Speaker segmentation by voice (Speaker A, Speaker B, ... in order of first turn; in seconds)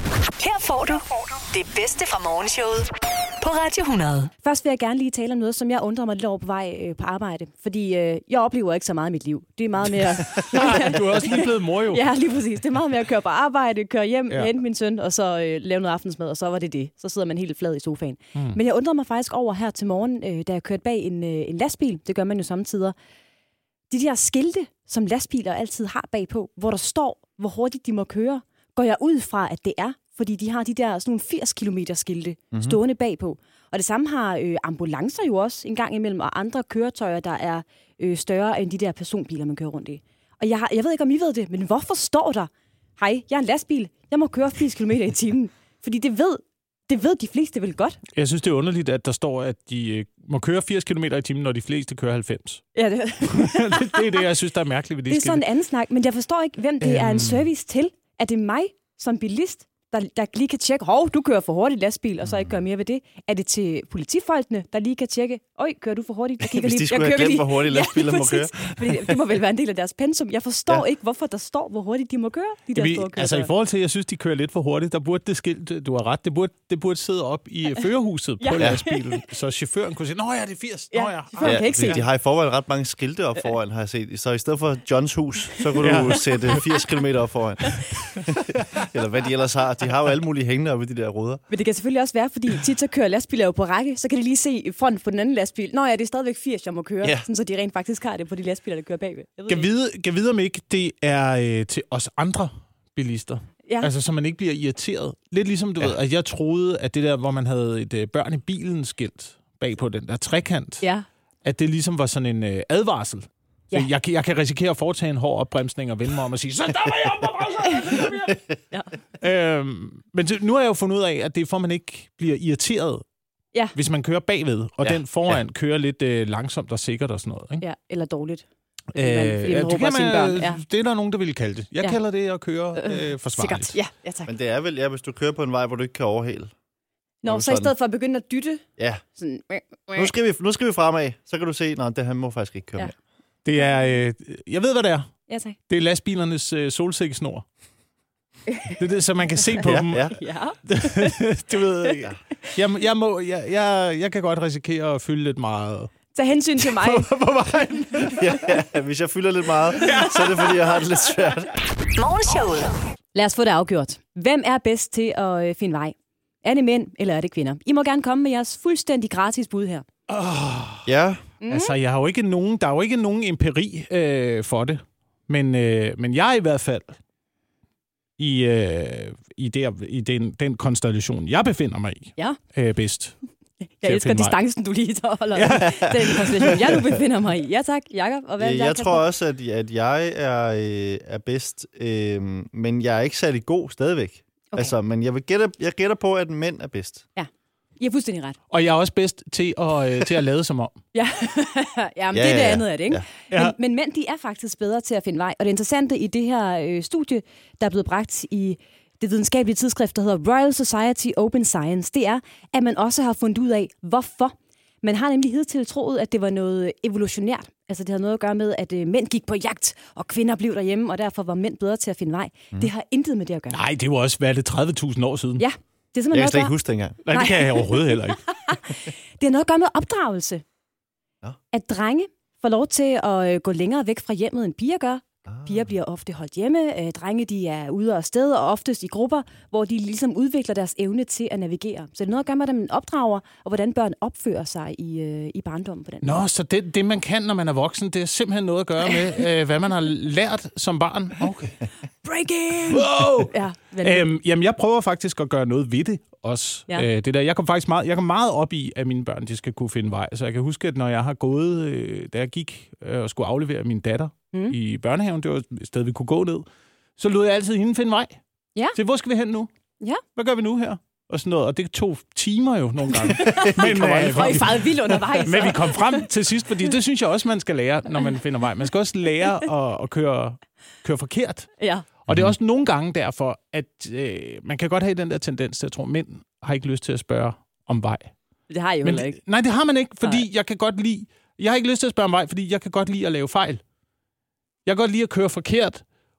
Speaker A: 0.4-4.3, 161.9-162.8
Speaker B: 4.4-22.9, 23.9-48.0, 52.7-54.2, 55.1-73.5, 78.4-79.0, 80.9-82.0, 91.5-99.7, 127.6-130.6, 132.8-134.3, 137.2-138.6, 139.2-140.1, 145.3-145.6, 148.5-148.8, 149.6-151.2, 156.1-157.1, 163.1-169.9, 171.4-171.8, 183.8-189.0, 197.2-198.4, 200.9-223.6, 225.4-226.5, 227.1-230.4, 231.5-246.2, 252.0-254.1, 273.0-276.0, 281.6-281.9, 288.5-289.2
Speaker C: 10.4-12.0, 48.1-52.6, 53.2-55.4, 56.8-57.5, 72.7-82.0, 85.8-86.3, 99.5-110.8, 111.4-118.4, 119.2-123.0, 123.7-127.6, 128.9-133.7, 143.4-145.1, 145.7-147.4, 148.8-150.1, 150.7-155.9, 156.6-158.5, 159.8-160.6, 170.1-170.9, 171.5-177.0, 178.2-183.2, 183.8-184.4, 185.3-186.8, 198.5-200.8, 223.5-225.4, 227.0-228.3, 246.0-251.6, 252.7-266.4, 267.0-268.2, 268.7-269.5, 270.1-274.7, 275.2-281.5, 282.1-288.1, 288.8-293.6, 294.6-295.8
Speaker D: 32.5-32.8, 62.2-62.5, 66.4-69.2, 81.4-91.4, 124.8-125.3, 134.2-136.5, 137.2-137.7, 138.8-139.0, 139.9-142.9, 149.6-150.2, 158.2-161.5, 170.8-171.2, 188.4-197.1, 202.1-203.0, 226.1-227.0, 235.2-235.7, 273.2-274.3